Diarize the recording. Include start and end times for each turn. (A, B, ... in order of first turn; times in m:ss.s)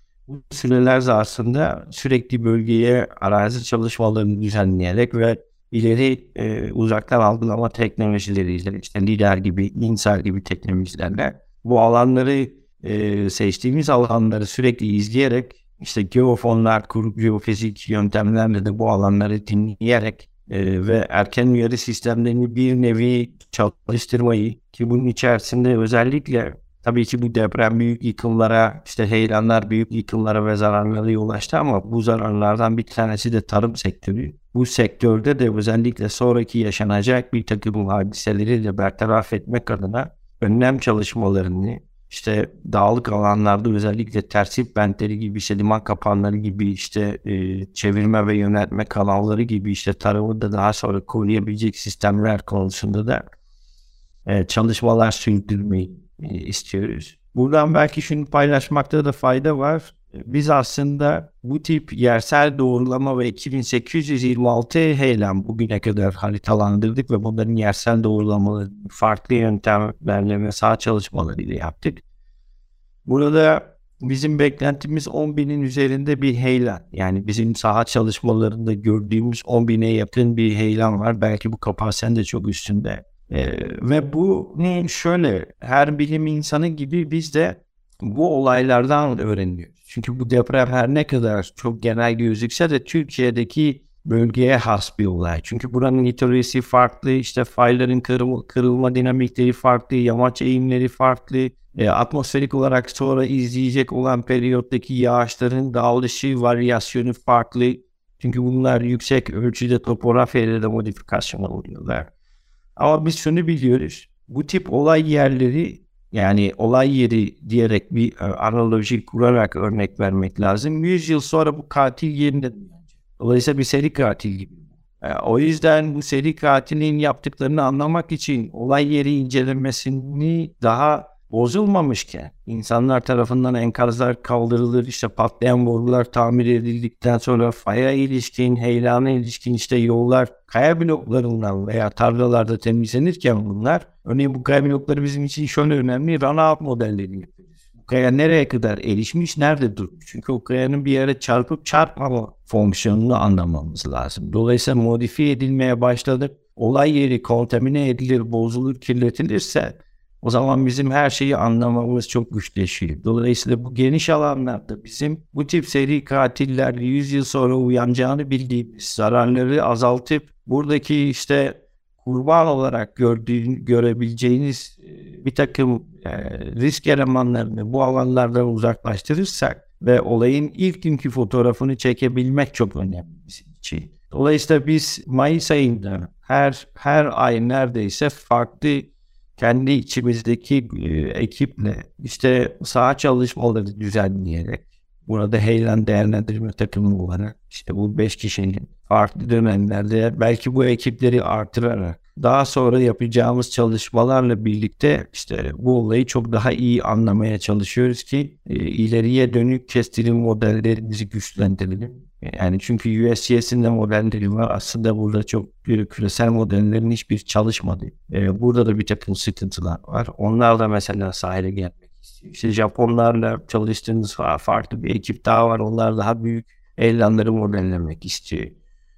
0:00.3-0:53.2 A
0:54.2-1:12.0 A
1:13.0-1:52.1 A
1:52.8-3:48.5 A